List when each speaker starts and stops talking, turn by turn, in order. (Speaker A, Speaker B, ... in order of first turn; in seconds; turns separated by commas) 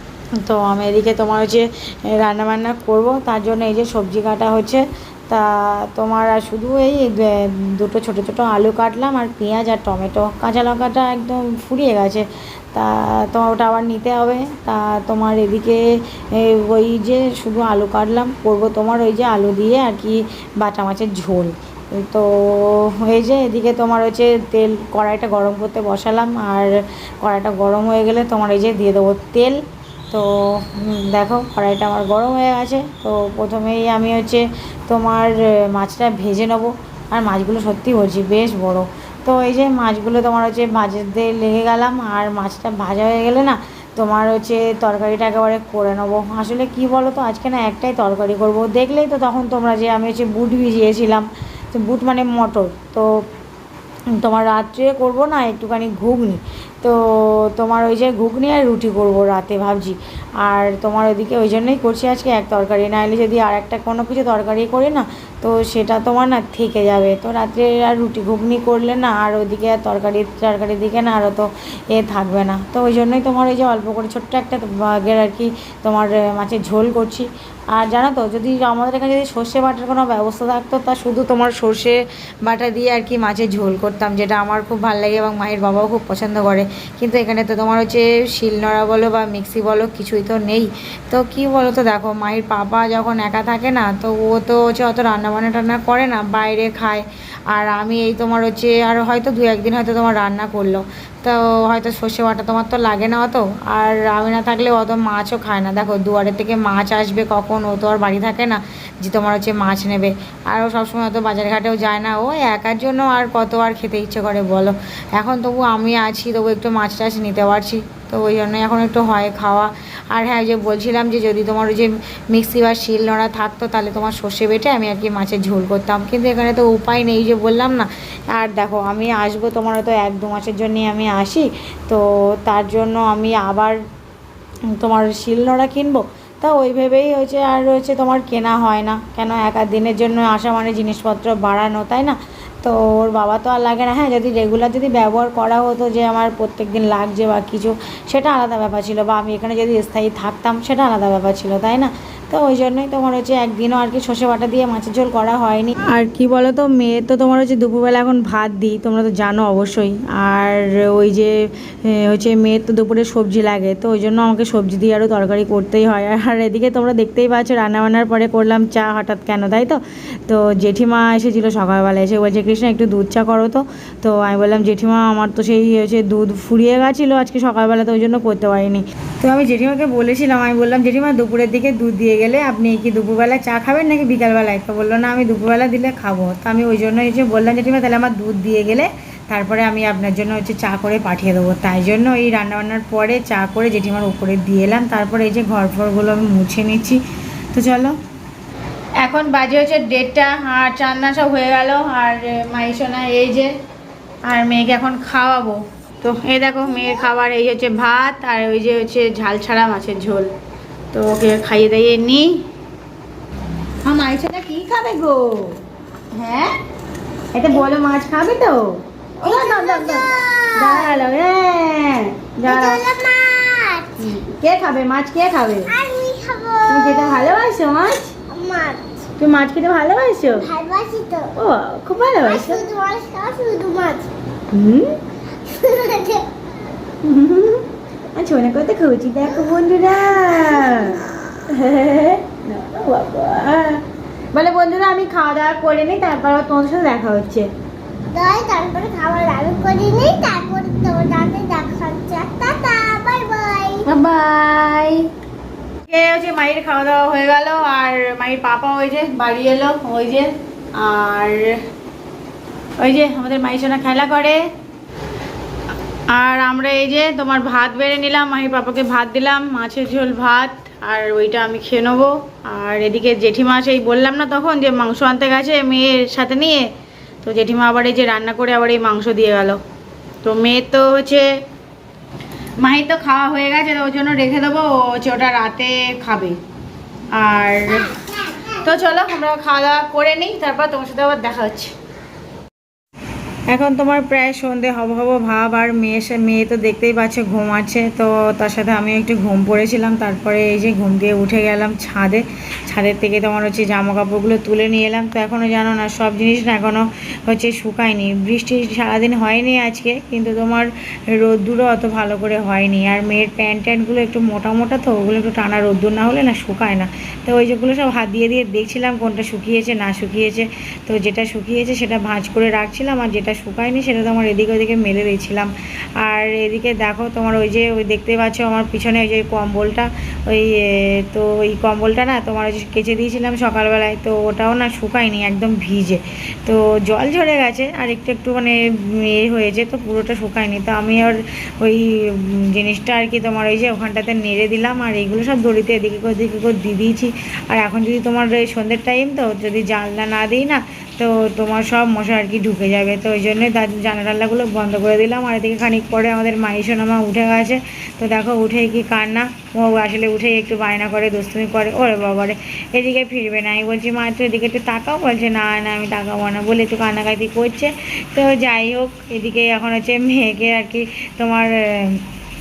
Speaker A: 0.4-53.1, Speaker A: 54.2-133.8, Speaker A: 134.7-197.0, Speaker A: 197.5-197.9, Speaker A: 199.0-203.5, Speaker A: 204.2-210.3, Speaker A: 210.9-212.4, Speaker A: 213.8-215.6, Speaker A: 216.1-216.5, Speaker A: 217.3-222.8, Speaker B: 219.2-221.0, Speaker B: 222.4-224.1, Speaker A: 224.0-225.7, Speaker B: 225.7-227.4, Speaker A: 226.7-228.1, Speaker B: 228.3-228.9, Speaker A: 229.2-230.5, Speaker B: 230.3-231.3, Speaker A: 231.3-232.6, Speaker B: 231.9-234.1, Speaker A: 234.5-235.0, Speaker B: 235.4-236.3, Speaker A: 237.0-247.5, Speaker B: 240.4-241.0, Speaker B: 248.1-253.9, Speaker A: 253.8-255.1, Speaker A: 255.9-261.6, Speaker A: 262.8-264.4, Speaker A: 266.1-276.7, Speaker A: 277.2-279.6, Speaker A: 280.2-281.3, Speaker A: 282.6-286.4, Speaker A: 287.1-288.0, Speaker A: 288.5-291.7, Speaker A: 293.5-372.1